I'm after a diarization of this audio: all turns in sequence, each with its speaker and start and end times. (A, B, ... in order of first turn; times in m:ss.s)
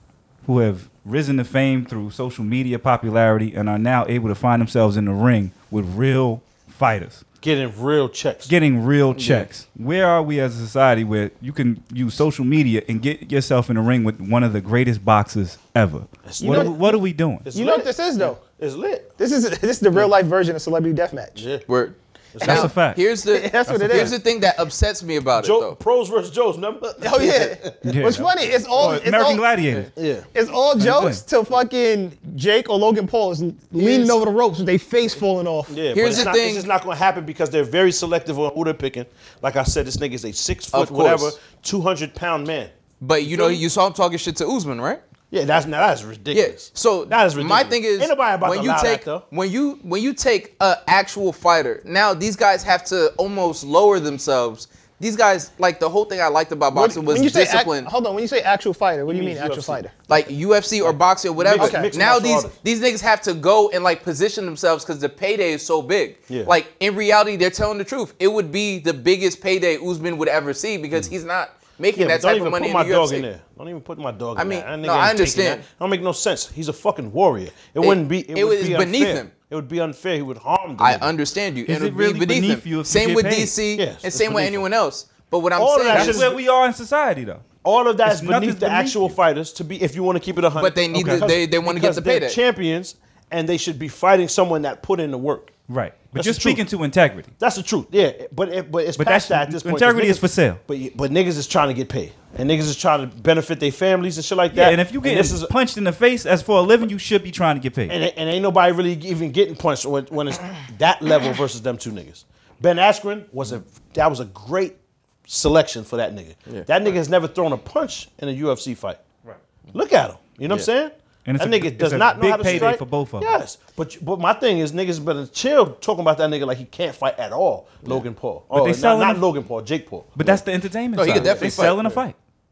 0:00.4-0:07.2 A
0:07.4-0:08.5 B
0:08.5-0:17.4 A
0:09.1-0:09.5 C
0:16.2-0:19.1 B
0:16.4-0:16.9 D
0:17.5-0:18.4 D
0:19.2-0:21.4 D
0:21.4-0:21.6 B
0:21.7-0:25.8 C
0:22.3-0:22.8 B
0:22.4-0:23.0 A
0:23.3-0:24.1 D
0:23.7-0:24.1 A
0:25.4-0:28.2 B
0:27.0-0:29.4 D
0:27.8-0:29.9 A
0:30.0-0:30.2 B
0:30.3-0:36.0 D
0:30.8-0:31.2 A
0:33.8-0:34.1 B
0:35.7-0:42.7 B
0:35.9-0:36.7 C
0:40.7-0:41.4 C
0:43.0-0:45.0 C
0:43.2-0:43.6 B
0:45.3-0:49.2 B
0:46.3-0:57.9 C
0:56.7-0:59.9 D
0:59.1-1:00.2 B
1:00.1-1:13.2 C
1:00.8-1:02.5 B
1:01.6-1:01.9 D
1:12.0-1:21.1 B
1:14.4-1:15.6 C
1:17.8-1:19.3 C
1:20.8-1:26.2 C
1:21.6-1:23.5 A
1:23.7-1:24.6 B
1:25.6-1:26.4 B
1:25.9-1:27.5 A
1:27.6-1:35.6 B
1:28.0-1:29.1 A
1:30.6-1:32.4 C
1:30.9-1:31.2 A
1:35.7-1:37.3 A
1:36.1-1:36.6 B
1:37.4-1:45.5 B
1:39.0-1:40.6 A
1:44.5-1:48.0 A
1:47.9-1:59.0 B
1:59.7-2:10.4 B
2:01.2-2:03.3 A
2:08.5-2:09.2 A
2:10.2-2:12.2 A
2:10.9-2:11.8 C
2:11.1-2:12.0 B